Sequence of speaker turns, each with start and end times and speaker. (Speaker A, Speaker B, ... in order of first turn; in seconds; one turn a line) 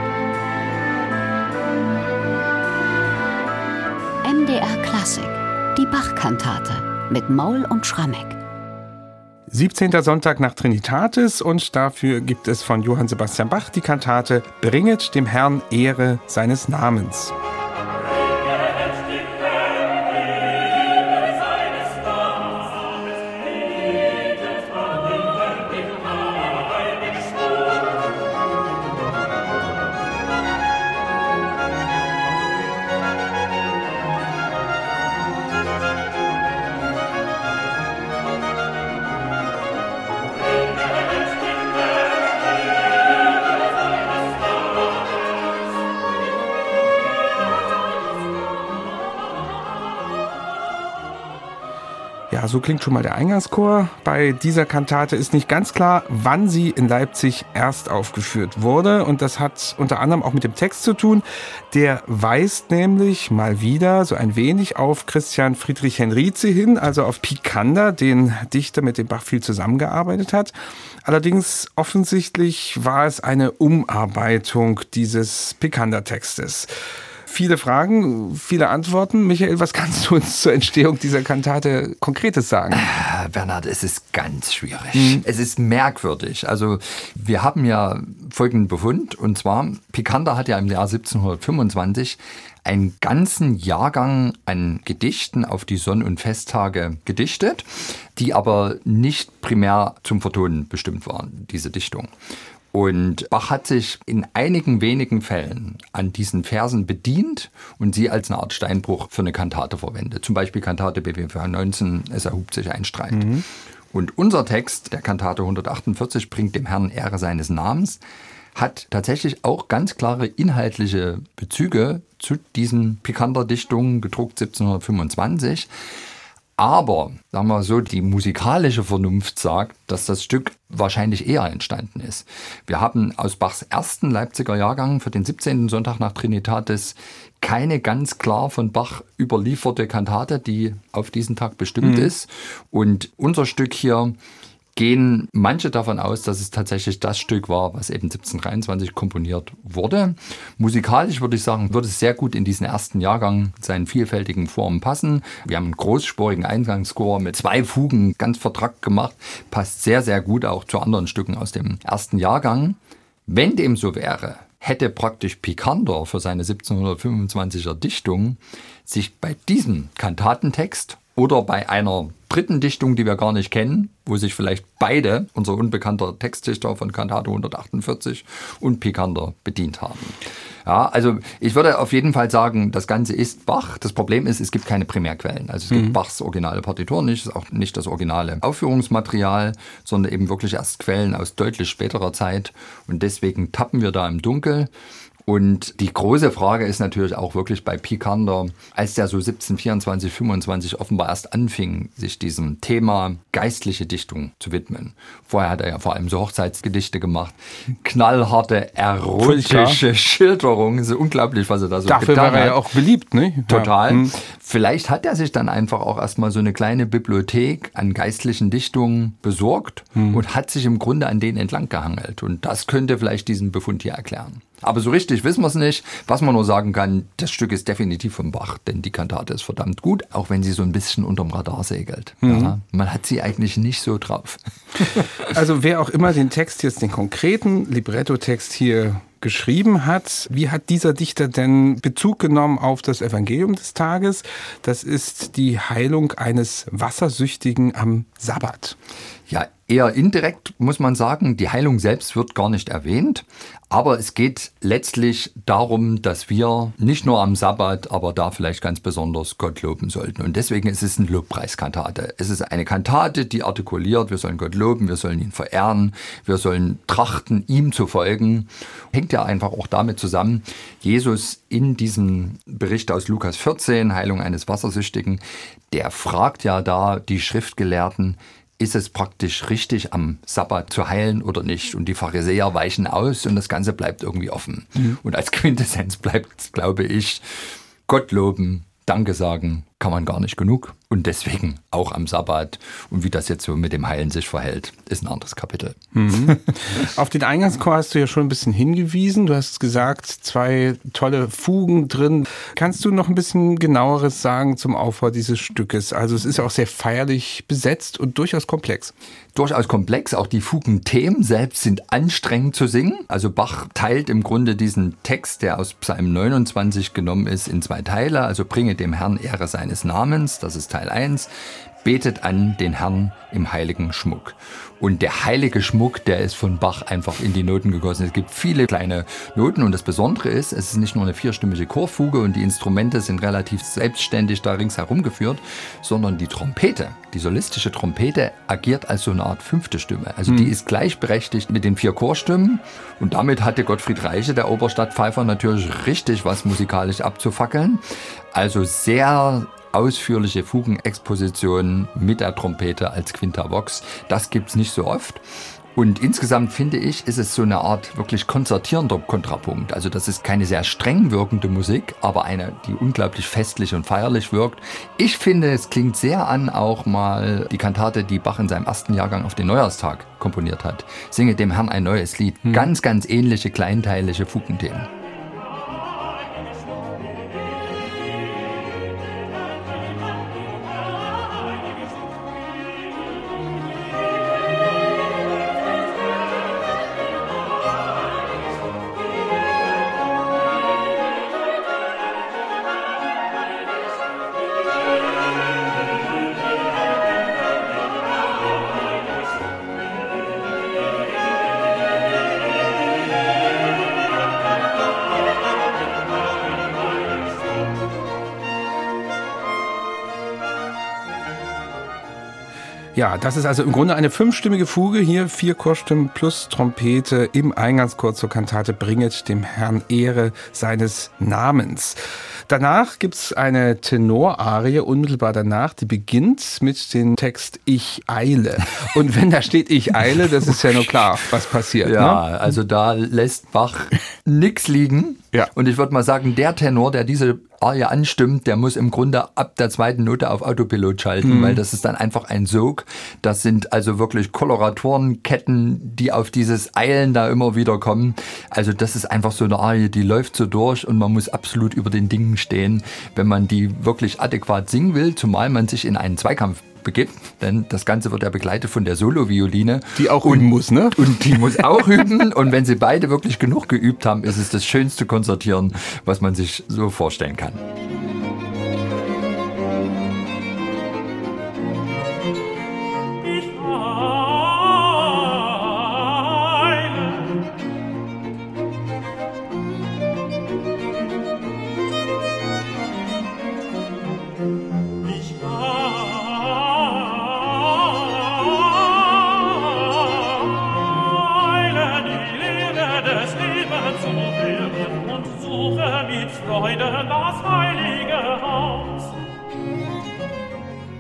Speaker A: 4.2-8.4
Speaker B: 9.5-17.3
Speaker B: 52.3-70.5
Speaker B: 71.0-76.7
Speaker B: 77.3-82.8
Speaker C: 82.7-102.1
Speaker B: 85.0-85.2
Speaker C: 102.7-113.4
Speaker B: 113.1-113.4
Speaker C: 113.9-118.0
Speaker C: 118.6-125.7
Speaker C: 126.6-144.2
Speaker B: 141.8-142.1
Speaker C: 144.8-194.7
Speaker B: 185.7-186.0
Speaker C: 195.3-212.6
Speaker B: 209.2-209.8
Speaker B: 211.8-214.1
Speaker C: 213.5-235.3
Speaker B: 232.2-232.5
Speaker B: 235.3-248.8
Speaker C: 249.3-287.2
Speaker C: 287.9-296.2
Speaker B: 295.9-308.9
Speaker C: 309.4-321.3
Speaker C: 321.8-355.2
Speaker B: 340.3-340.5
Speaker C: 355.8-374.9
Speaker B: 412.9-432.2
Speaker C: 431.8-467.6
Speaker B: 441.2-441.6
Speaker B: 460.0-461.7
Speaker B: 473.3-475.7
Speaker B: 476.5-477.0
Speaker B: 485.4-486.4
Speaker B: 491.8-498.9